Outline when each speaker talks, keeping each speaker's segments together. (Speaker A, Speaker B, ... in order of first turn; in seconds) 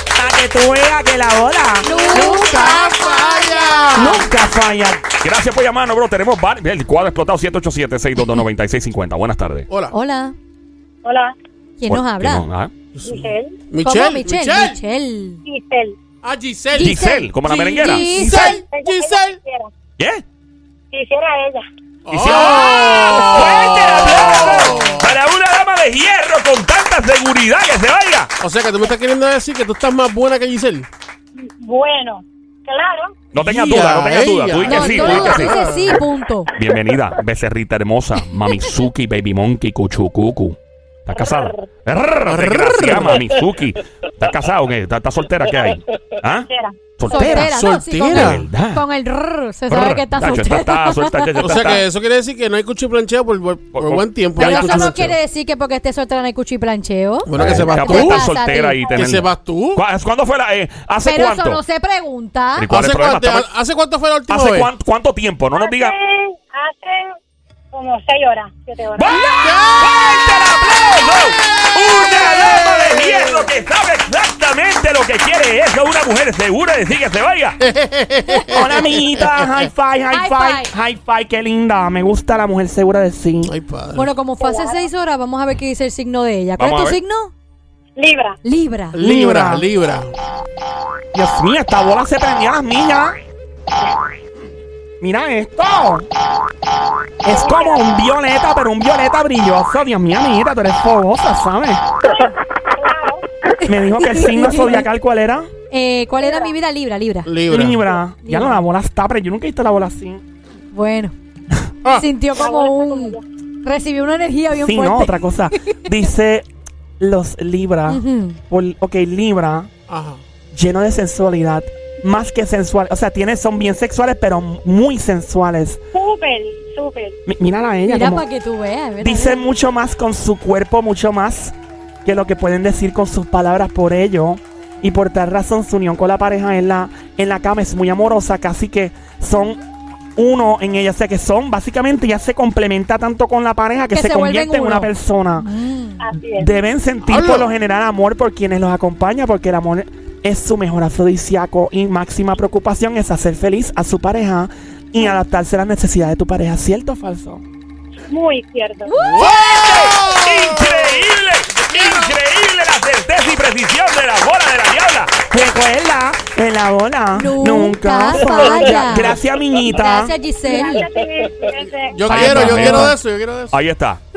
Speaker A: 0.1-2.3, 3.9-5.1, 78.5-83.5, 89.0-89.7, 91.1-93.2, 95.0-96.1, 97.2-101.8, 103.7-105.5, 107.5-110.2, 114.5-116.4, 117.0-119.7, 120.5-125.8, 127.3-128.2, 129.0-139.6, 140.2-145.5, 146.3-157.4, 165.3-170.1
Speaker B: 1.8-4.3, 9.9-10.3, 11.8-12.4, 13.8-15.4, 16.7-18.5, 24.7-25.0, 34.6-36.5, 47.0-51.3, 54.4-58.8, 61.0-62.6, 78.3-78.7, 80.1-80.7, 84.0-87.3, 88.4-89.0, 103.6-104.9, 105.7-107.3, 108.2-108.6, 110.7-111.1, 111.9-115.8, 117.9-118.4, 127.8-129.4, 143.9-146.0, 158.8-159.3, 167.1-170.9, 172.4-172.8
Speaker C: 1.9-4.2, 9.7-9.9, 12.9-14.8, 16.2-19.4, 22.1-25.1, 28.4-30.9, 33.4-36.0, 42.2-43.4, 47.1-48.5, 51.4-55.1, 57.2-58.3, 58.9-59.8, 62.7-64.7, 69.4-69.9, 71.4-73.5, 77.6-79.5, 83.4-84.1, 88.9-90.1, 107.2-107.9, 119.9-120.2, 147.0-147.5, 159.0-162.2, 168.7-169.2, 171.9-173.6
Speaker D: 5.2-9.7, 11.9-12.7, 16.8-18.5, 22.1-28.3, 33.3-35.5, 36.5-47.5, 48.1-48.8, 49.7-51.8, 53.7-55.1, 57.4-61.6, 62.6-63.5, 64.3-65.9, 68.9-77.6, 86.6-87.0, 159.2-165.3, 172.1-173.0, 173.5-174.0
Speaker E: 11.0-11.3, 13.0-13.6, 15.4-16.0, 18.4-19.7, 20.9-21.6, 31.4-33.1, 41.1-41.6, 46.4-46.8, 65.5-67.2, 67.7-69.2, 84.4-84.8, 88.0-88.4, 97.2-98.0, 102.0-103.2, 106.2-106.5, 112.3-113.2, 125.9-127.2, 146.0-146.5, 158.1-158.9, 170.4-172.8